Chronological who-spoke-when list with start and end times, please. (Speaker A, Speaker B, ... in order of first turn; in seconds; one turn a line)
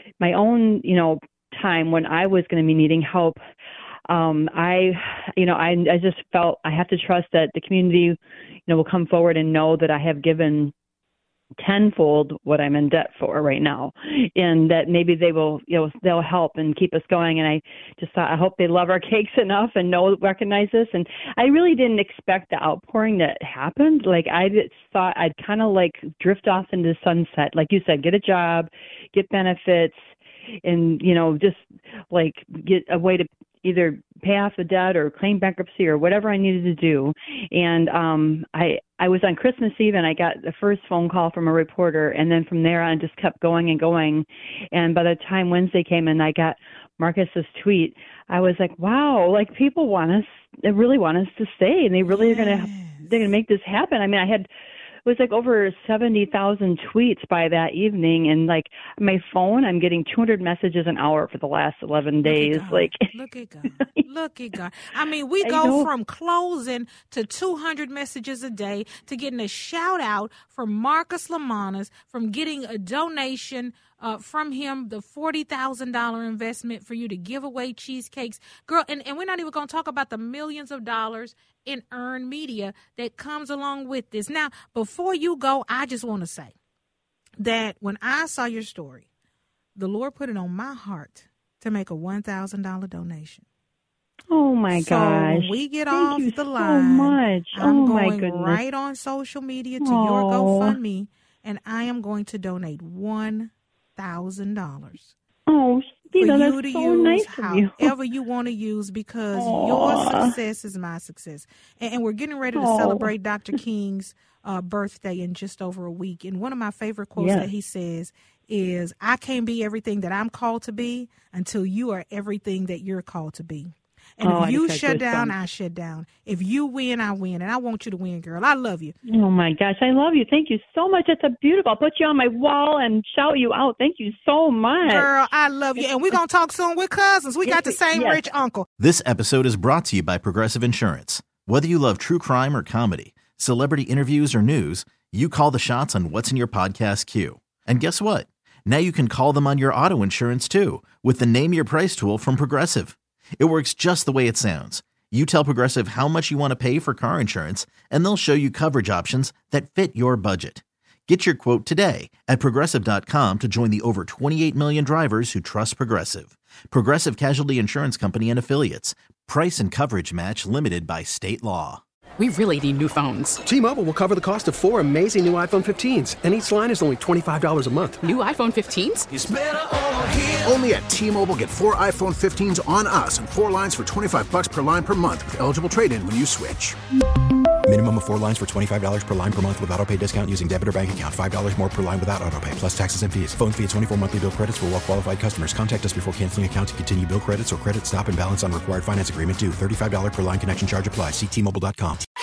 Speaker A: 0.2-3.4
Speaker A: 4.1-10.7
Speaker A: 11.6-29.9
Speaker A: 30.6-54.5
Speaker B: 52.0-53.3
Speaker A: 55.1-63.0
Speaker B: 62.2-86.5
Speaker A: 65.4-65.9
Speaker B: 87.4-89.1
Speaker B: 89.8-93.4
Speaker A: 94.3-98.6
Speaker B: 94.7-105.2
Speaker A: 99.8-100.8
Speaker A: 105.5-107.9
Speaker B: 106.1-128.9
Speaker A: 109.3-110.3
Speaker A: 112.5-113.1
Speaker A: 117.2-117.5
Speaker A: 124.2-125.4
Speaker A: 129.1-135.1
Speaker B: 134.8-138.7
Speaker A: 137.4-138.2
Speaker C: 138.8-171.8
Speaker D: 172.2-173.4
Speaker E: 173.4-178.1
Speaker D: 178.0-179.1
Speaker F: 179.1-186.8
Speaker G: 187.7-202.0